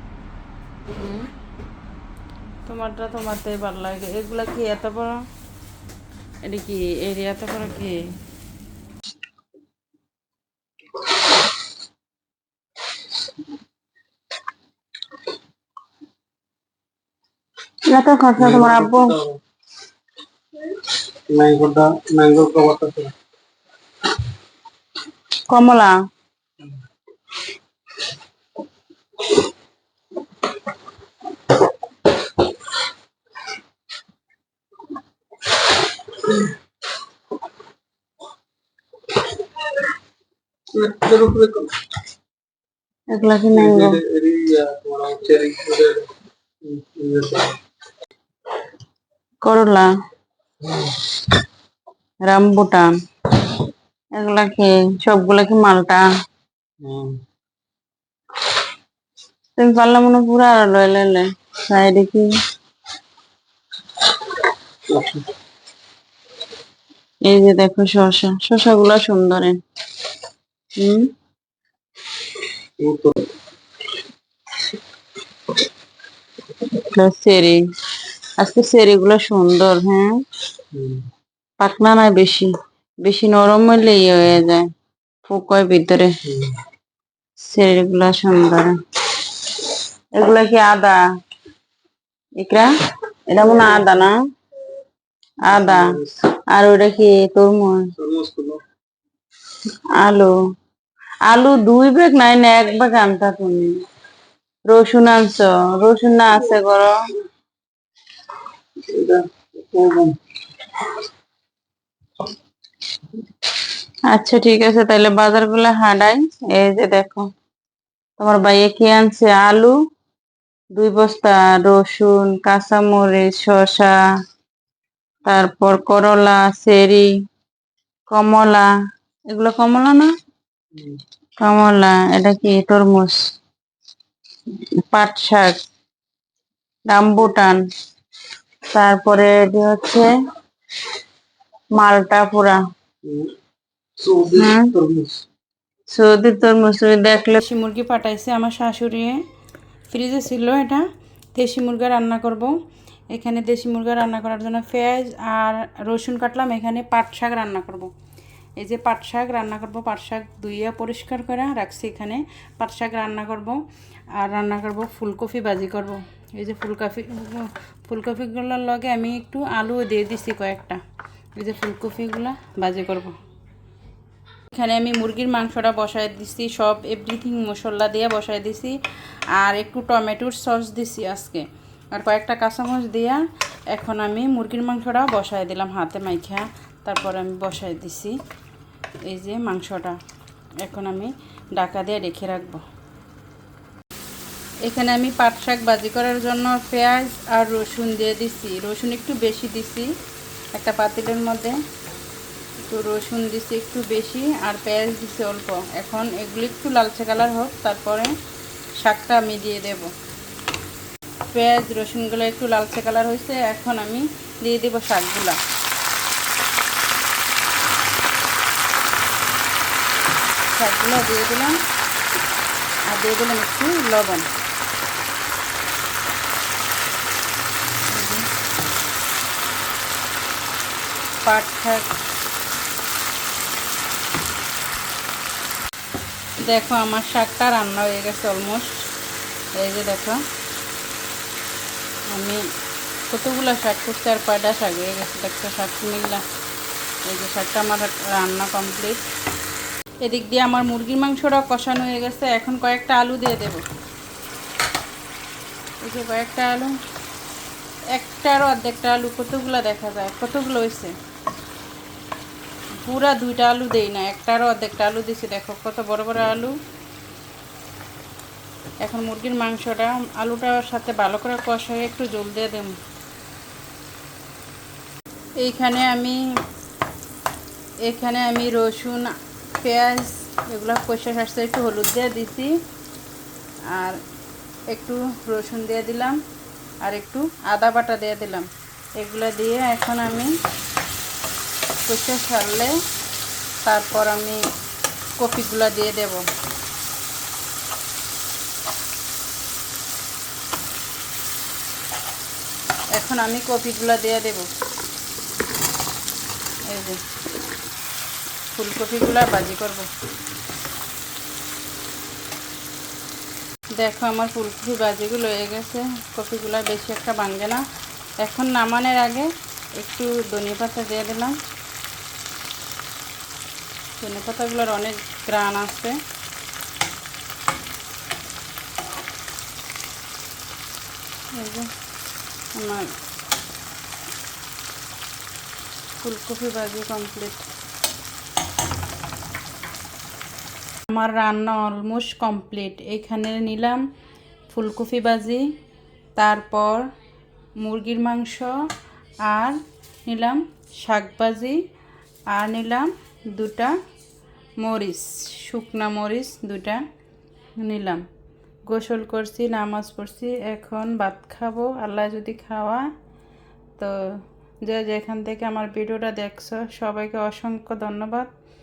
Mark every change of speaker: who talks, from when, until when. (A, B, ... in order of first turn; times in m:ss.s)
0:02.7-0:05.2 A
0:06.4-0:08.0 A
0:17.9-0:19.2 B
0:18.4-0:19.4 C
0:21.3-0:23.1 C
0:25.5-0:26.0 B
0:40.7-0:41.7 C
0:43.1-0:44.0 B
0:43.5-0:46.1 C
0:46.6-0:47.6 C
0:49.4-0:49.9 B
0:52.2-0:53.6 B
0:54.1-0:56.0 B
0:56.8-0:57.2 C
0:59.6-1:02.3 B
1:04.9-1:05.3 C
1:07.2-1:09.6 B
1:10.8-1:11.1 B
1:12.8-1:13.2 C
1:16.6-1:17.6 B
1:18.4-1:20.2 B
1:20.7-1:21.0 C
1:21.6-1:24.7 B
1:25.3-1:26.1 B
1:27.4-1:28.8 B
1:30.2-1:31.0 B
1:32.4-1:32.7 B
1:33.3-1:34.2 B
1:35.4-1:37.9 B
1:35.5-1:36.2 C
1:38.0-1:38.6 C
1:40.0-1:40.3 B
1:41.2-1:43.8 B
1:44.7-1:47.0 B
1:48.9-1:50.2 C
1:54.1-1:57.3 B
1:58.2-1:59.8 B
2:00.8-2:03.9 B
2:05.2-2:07.1 B
2:08.1-2:08.7 B
2:09.3-2:10.1 B
2:11.4-2:13.2 B
2:14.5-2:15.6 B
2:16.9-2:17.6 B
2:18.7-2:20.2 B
2:21.8-2:22.6 B
2:23.0-2:23.3 C
2:24.0-2:25.2 C
2:24.3-2:24.7 B
2:25.9-2:27.4 B
2:27.3-2:29.2 A
2:29.9-2:32.5 A
2:33.1-2:37.9 A
2:38.6-2:43.6 A
2:44.2-2:50.8 A
2:51.4-2:53.2 A
2:54.5-2:58.8 A
2:59.3-3:08.2 A
3:09.1-3:10.0 A
3:10.6-3:12.6 A
3:14.6-3:19.9 A
3:20.5-3:21.6 A
3:22.7-3:28.1 A
3:28.8-3:29.9 A
3:31.3-3:35.4 A
3:40.5-3:41.6 A
3:42.9-3:44.3 A
3:47.9-3:48.2 A
3:51.2-3:51.9 A
3:56.4-3:58.8 A
3:59.6-4:00.2 A
4:02.1-4:02.4 A
4:03.1-4:06.2 A
4:07.1-4:09.0 A
4:10.0-4:13.6 A
4:15.8-4:16.7 A
4:17.9-4:20.9 A
4:22.8-4:26.5 A
4:28.8-4:32.7 A
4:35.4-4:36.2 A
4:37.8-4:42.5 A
4:43.7-4:44.0 A
4:44.7-4:46.2 A
4:46.8-4:50.3 A
4:51.8-4:52.7 A
4:53.6-4:54.4 A
4:55.2-4:56.2 A
5:02.9-5:04.5 A
5:06.7-5:07.0 A
5:08.5-5:09.9 A
5:13.8-5:17.6 A
5:18.2-5:21.4 A
5:24.0-5:25.9 A
5:31.3-5:31.7 A
5:32.5-5:32.9 A
5:36.0-5:37.4 A
5:40.9-5:43.8 A
5:44.5-5:45.5 A
5:46.2-5:46.9 A
5:47.6-5:48.6 A
5:49.2-5:51.6 A
5:52.3-5:53.8 A
5:54.6-5:56.8 A
5:57.6-5:58.0 A
5:58.7-6:02.9 A
6:04.6-6:08.3 A